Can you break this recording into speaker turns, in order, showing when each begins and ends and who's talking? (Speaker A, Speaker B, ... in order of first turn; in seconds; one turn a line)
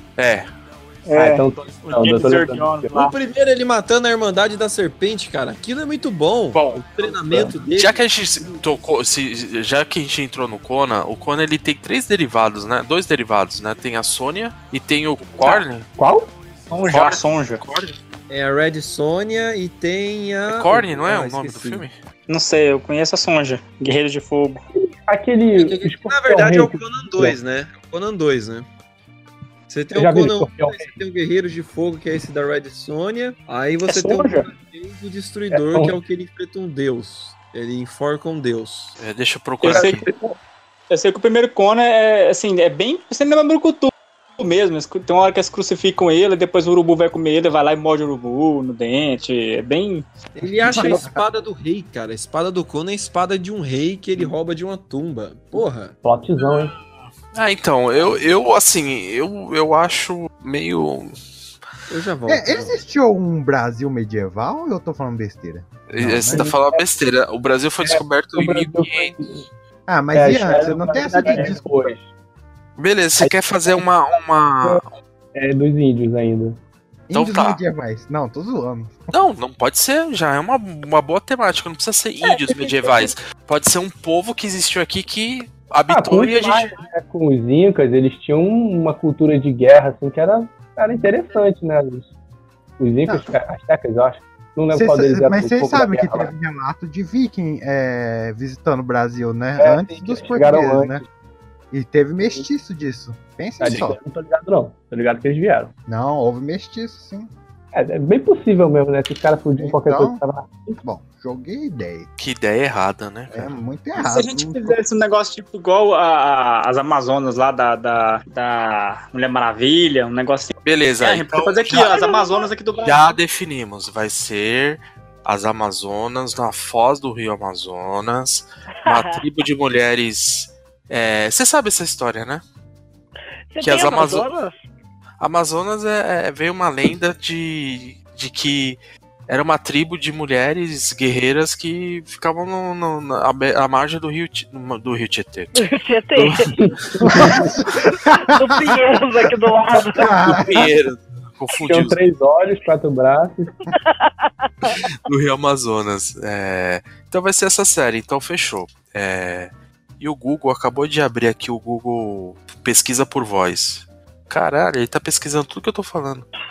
Speaker A: 0.2-0.5
Speaker B: 1.1-3.1
Speaker C: 1.1-2.9
Speaker D: 2.9-8.0
Speaker B: 6.5-7.4
Speaker A: 7.8-15.9
Speaker C: 16.0-16.3
Speaker B: 16.7-17.6
Speaker A: 16.9-17.9
Speaker D: 18.3-21.9
Speaker A: 20.5-21.9
Speaker B: 22.3-24.6
Speaker C: 24.7-27.4
Speaker D: 25.5-28.7
Speaker D: 29.7-38.9
Speaker C: 29.9-30.9
Speaker B: 33.9-34.5
Speaker C: 35.5-36.0
Speaker A: 39.0-40.0
Speaker B: 39.6-40.3
Speaker C: 39.7-40.1
Speaker B: 40.9-50.0
Speaker D: 50.3-55.9
Speaker E: 50.5-51.2
Speaker C: 56.0-56.7
Speaker A: 57.3-61.2
Speaker D: 61.9-62.8
Speaker E: 62.3-66.5
Speaker A: 65.9-69.2
Speaker C: 66.3-66.9
Speaker C: 67.8-69.5
Speaker E: 69.9-71.7
Speaker C: 70.1-72.0
Speaker B: 71.3-71.5
Speaker A: 72.8-75.0
Speaker C: 73.2-73.8
Speaker C: 75.3-76.6
Speaker E: 77.1-79.0
Speaker A: 77.1-77.6
Speaker A: 79.1-86.7
Speaker C: 85.9-92.1
Speaker C: 92.8-96.3
Speaker E: 94.7-101.0
Speaker C: 99.6-101.0
Speaker E: 101.7-104.0
Speaker C: 103.6-105.7
Speaker E: 105.9-107.3
Speaker C: 107.7-110.8
Speaker E: 109.6-110.2
Speaker E: 110.8-112.1
Speaker A: 112.2-113.5
Speaker E: 113.3-114.8
Speaker B: 114.0-123.1
Speaker A: 120.6-122.0
Speaker F: 122.0-122.4
Speaker A: 122.8-132.4
Speaker F: 128.8-129.2
Speaker F: 133.5-134.6
Speaker A: 133.6-134.3
Speaker A: 135.2-145.6
Speaker F: 145.5-146.5
Speaker A: 146.2-146.4
Speaker C: 146.6-147.4
Speaker E: 147.1-147.7
Speaker F: 148.1-150.2
Speaker E: 149.9-150.7
Speaker A: 150.2-152.0
Speaker C: 151.7-153.6
Speaker F: 153.8-154.8
Speaker A: 154.7-166.3